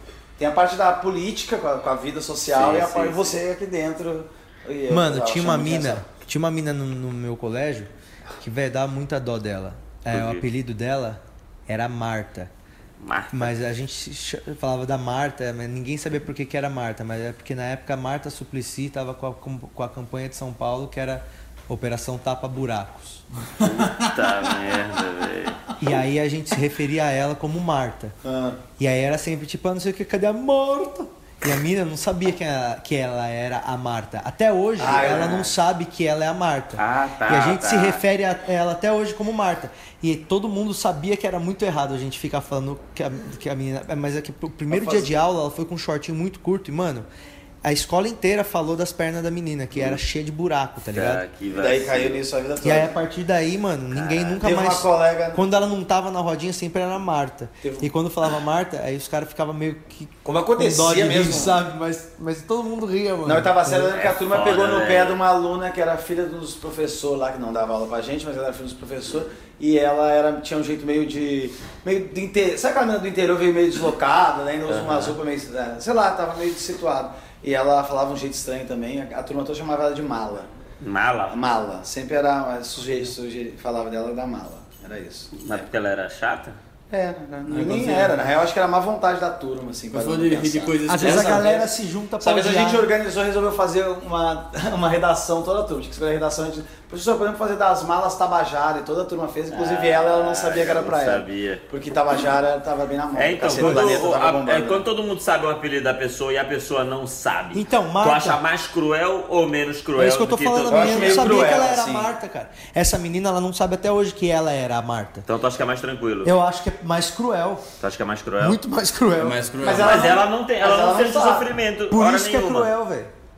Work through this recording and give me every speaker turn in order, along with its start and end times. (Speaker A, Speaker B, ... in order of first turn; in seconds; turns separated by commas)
Speaker A: 0.4-6.0, Speaker B: 2.5-3.4, Speaker C: 4.9-12.5, Speaker B: 10.1-10.4, Speaker B: 13.0-13.5, Speaker C: 13.3-23.2, Speaker B: 23.6-25.6, Speaker C: 25.8-28.1, Speaker A: 28.2-28.6, Speaker C: 28.8-47.1, Speaker A: 34.8-35.5, Speaker B: 34.8-35.5, Speaker B: 36.8-38.0, Speaker A: 44.7-45.2, Speaker C: 47.6-51.2, Speaker B: 50.9-52.2, Speaker A: 51.5-52.9, Speaker C: 52.6-63.9, Speaker B: 53.9-54.4, Speaker A: 54.4-55.4, Speaker A: 57.6-57.9, Speaker A: 60.2-61.6, Speaker A: 63.2-80.5, Speaker B: 64.0-65.2, Speaker B: 74.7-75.2, Speaker B: 80.8-81.5, Speaker A: 81.3-85.7, Speaker B: 85.4-86.6, Speaker A: 86.9-91.7, Speaker D: 87.5-88.2, Speaker D: 89.9-91.5, Speaker C: 90.9-92.9, Speaker A: 92.2-104.8, Speaker B: 99.5-101.6, Speaker B: 103.2-111.3, Speaker D: 103.6-103.9, Speaker C: 107.5-108.4, Speaker C: 110.0-115.3, Speaker A: 110.7-112.1, Speaker B: 115.3-116.3, Speaker C: 116.2-117.7, Speaker B: 117.8-118.6, Speaker C: 118.4-119.4, Speaker D: 119.2-120.2, Speaker A: 119.6-121.5, Speaker B: 119.7-122.7, Speaker C: 121.9-123.1